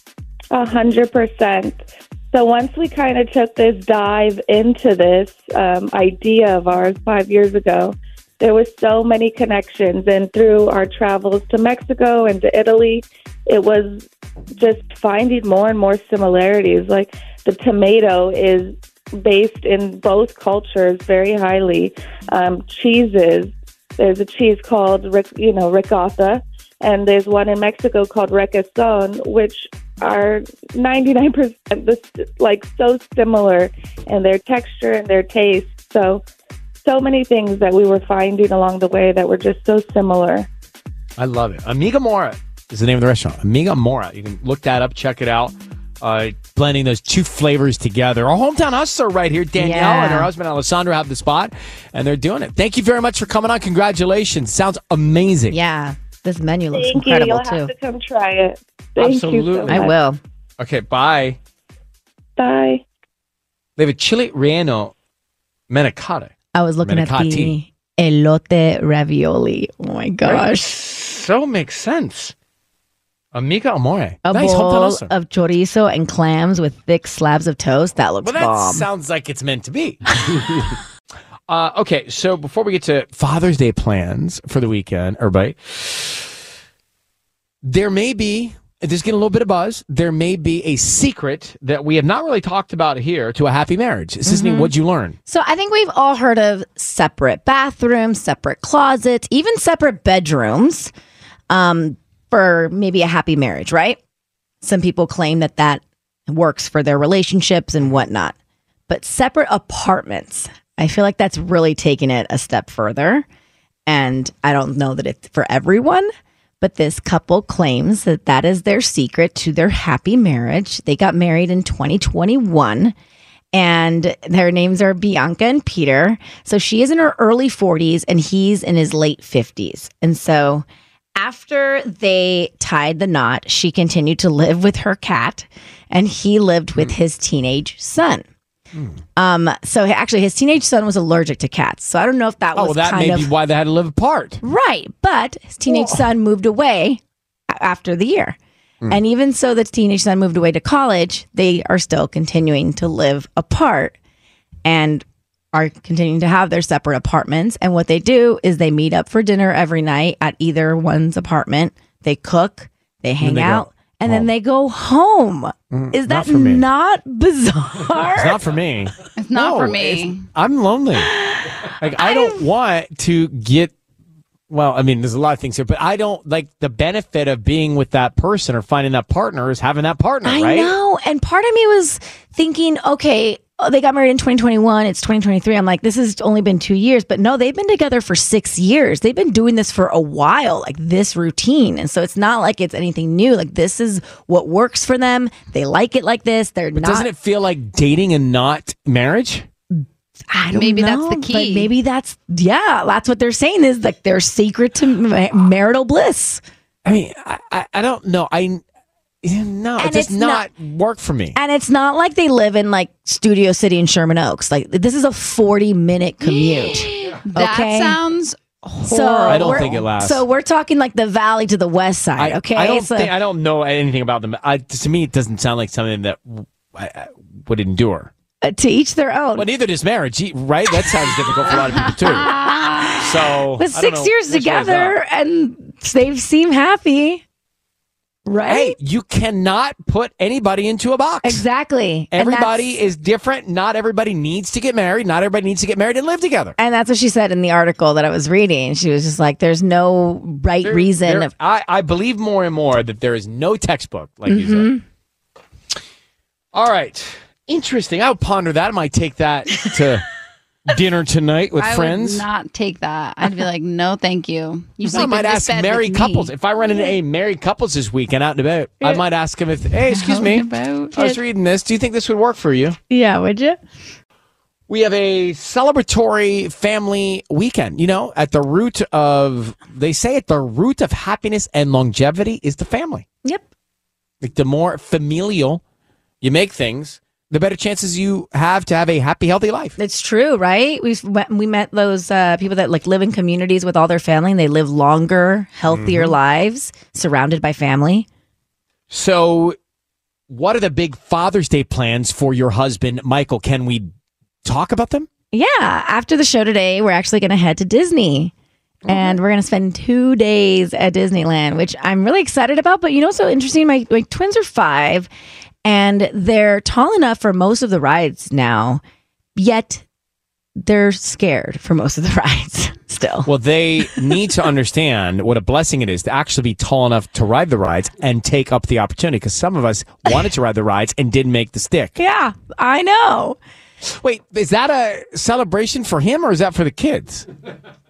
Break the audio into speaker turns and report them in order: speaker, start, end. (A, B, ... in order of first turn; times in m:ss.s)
0:00.5-0:14.1 A
0:14.6-0:36.2 A
0:36.8-0:40.5 A
0:41.2-0:55.6 B
0:49.6-0:50.3 C
0:55.5-0:57.7 C
0:56.7-0:59.9 A
0:59.0-0:59.9 B
0:59.7-1:00.2 C
1:00.6-1:01.4 B
1:02.4-1:02.8 A
1:03.8-1:04.9 B
1:05.7-1:06.3 B
1:06.5-1:10.8 C
1:06.8-1:07.6 B
1:10.2-1:12.3 B
1:13.3-1:15.1 B
1:14.2-1:18.9 C
1:18.2-1:20.7 B
1:21.5-1:26.3 B
1:27.6-1:35.2 B
1:34.2-1:34.7 C
1:35.2-1:40.9 C
1:41.5-1:44.0 C
1:44.6-1:48.4 C
1:48.9-1:53.2 C
1:53.9-2:02.9 C
2:03.5-2:10.6 C
2:11.2-2:18.2 C
2:19.2-2:23.3 C
2:22.6-2:24.4 B
2:24.4-2:28.4 C
2:25.7-2:26.1 B
2:28.9-2:33.9 C
2:34.6-2:48.4 C
2:43.2-2:44.3 B
2:45.7-2:46.6 B
2:48.1-2:51.1 B
2:49.2-2:50.3 D
2:51.0-2:52.4 C
2:51.8-2:53.7 B
2:54.5-3:00.7 B
3:00.2-3:17.1 C
3:16.8-3:19.4 B
3:19.7-3:26.4 C
3:20.5-3:21.7 D
3:26.8-3:28.6 B
3:29.2-3:31.4 B
3:29.8-3:30.5 C
3:31.4-3:38.0 C
3:36.2-3:39.6 D
3:38.8-3:43.1 C
3:39.2-3:40.2 B
3:42.2-3:48.1 B
3:48.4-3:49.5 C
3:49.4-3:52.3 B
3:51.8-3:52.8 D
3:52.1-3:57.2 C
3:53.0-3:55.0 B
3:58.2-3:58.8 C
3:58.4-4:01.4 B
4:01.2-4:02.8 C
4:02.1-4:06.6 B
4:06.6-4:11.3 C
4:10.6-4:14.7 B
4:14.2-4:14.8 C
4:16.5-4:20.1 B
4:20.7-4:22.3 B
4:21.6-4:26.3 D
4:24.8-4:32.8 B
4:26.6-4:26.9 C
4:29.9-4:31.0 D
4:32.9-4:33.6 C
4:34.7-4:43.0 B
4:44.2-4:45.6 B
4:46.2-4:49.8 B
4:49.8-4:58.1 C
4:55.7-4:56.2 B
4:58.9-4:59.6 B
5:00.3-5:03.9 B
5:04.4-5:05.1 B
5:05.3-5:08.3 C
5:08.8-5:09.2 B
5:08.9-5:15.1 C
5:15.6-5:18.8 C
5:19.4-5:19.8 C
5:20.6-5:23.3 C
5:23.2-5:32.0 B
5:23.8-5:24.3 C
5:32.0-5:33.4 C
5:33.8-5:37.3 B